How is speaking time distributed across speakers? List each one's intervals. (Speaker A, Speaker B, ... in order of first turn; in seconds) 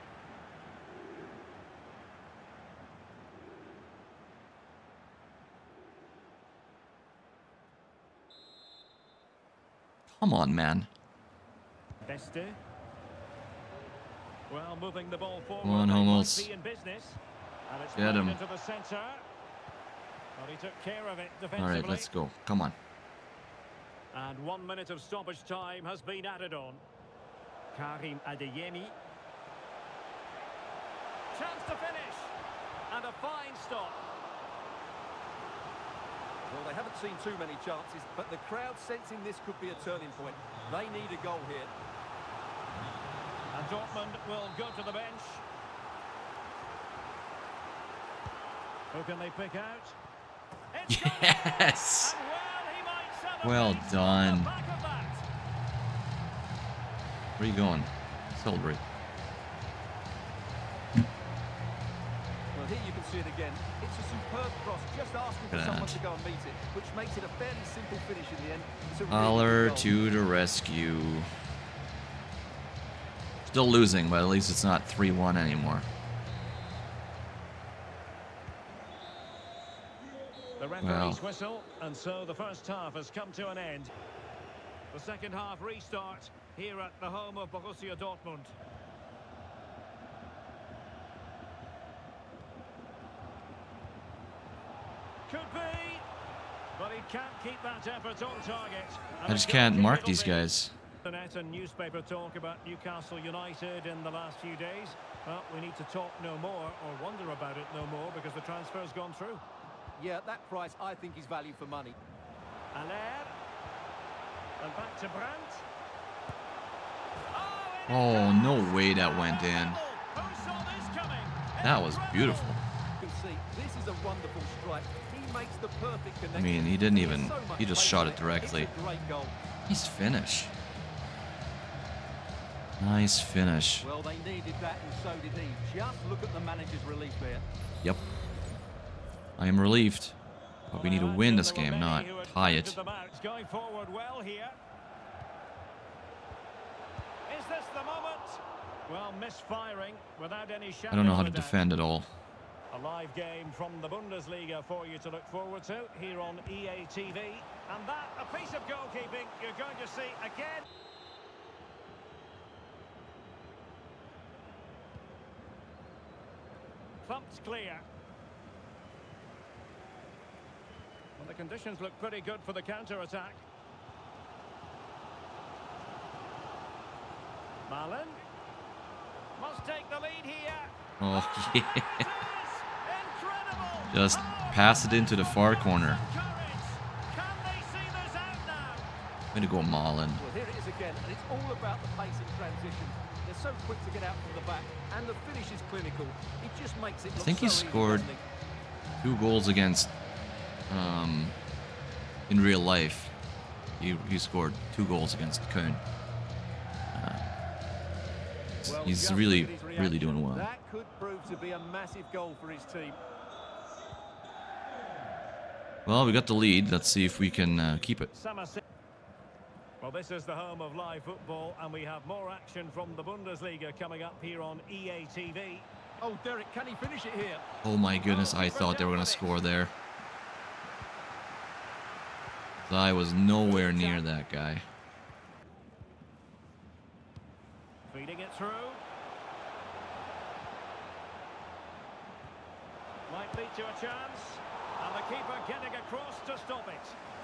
Speaker A: 10.1-10.9, 15.6-16.5, 17.9-18.4, 21.6-22.8, 50.9-52.2, 53.4-54.5, 57.4-58.8, 65.5-66.0, 69.1-71.3, 73.5-75.9, 80.8-81.2, 99.2-100.7, 117.9-119.8, 121.6-122.6, 126.3-128.7, 129.7-130.5, 132.8-133.9, 139.4-140.2, 140.7-142.8, 150.9-152.1, 181.0-182.1, 183.9-186.0, 189.3-190.2, 197.1-198.1, 199.0-199.9, 200.7-201.3, 202.3-203.1, 203.8-205.8, 206.9-207.3, 208.6-210.5, 215.8-218.1, 227.6-229.7, 232.6-234.7
Speaker B: 12.1-12.6, 14.5-19.2, 20.4-22.1, 24.1-26.8, 27.7-28.9, 31.3-32.3, 32.9-34.0, 43.5-45.4, 48.9-50.0, 50.7-55.2, 80.6-83.9, 84.9-88.5, 95.3-96.0, 96.8-100.5, 101.0-109.4, 112.7-113.3, 114.6-115.6, 117.3-122.6, 140.7-144.6, 147.3-151.6, 152.7-160.7, 167.0-167.8, 171.2-173.4, 177.7-178.2, 179.4-188.9, 218.1-218.6, 219.8-225.7, 228.0-229.3, 233.4-234.0, 237.9-238.8, 243.1-247.0
Speaker C: 36.5-41.7, 62.5-69.9, 110.0-111.9, 123.0-129.3, 133.8-137.4, 190.2-198.2, 208.6-213.0, 226.0-227.4